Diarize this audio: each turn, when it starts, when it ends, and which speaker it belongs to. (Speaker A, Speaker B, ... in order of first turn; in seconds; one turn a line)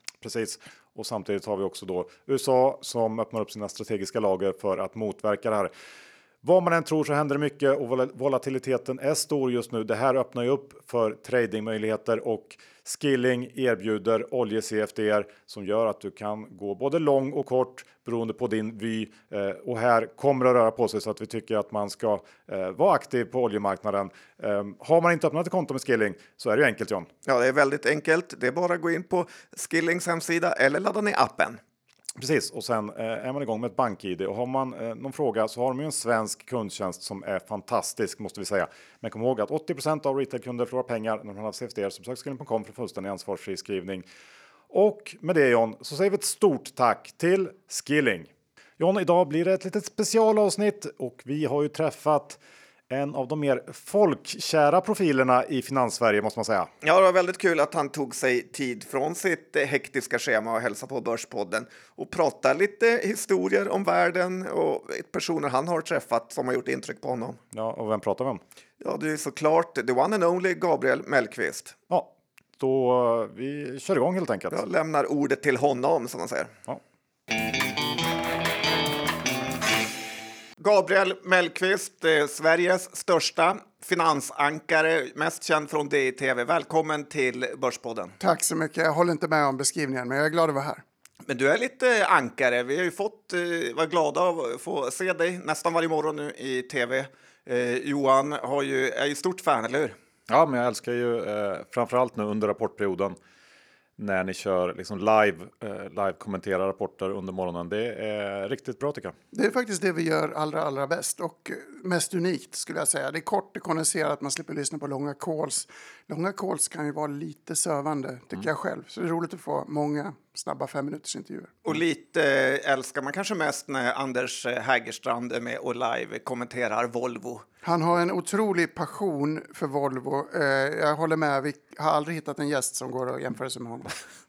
Speaker A: 0.2-5.7
Speaker A: 6.4-27.1
Speaker B: 27.2-31.6
Speaker A: 32.2-44.0
Speaker A: 44.7-56.7
Speaker B: 56.8-67.4
Speaker A: 67.5-68.4
Speaker B: 68.8-71.7
Speaker A: 71.9-74.6
Speaker B: 74.5-76.5
Speaker B: 80.6-88.2
Speaker C: 88.2-90.8
Speaker B: 91.2-99.9
Speaker A: 100.3-103.2
Speaker A: 104.0-109.1
Speaker C: 109.3-121.5
Speaker B: 121.6-127.4
Speaker C: 127.6-134.0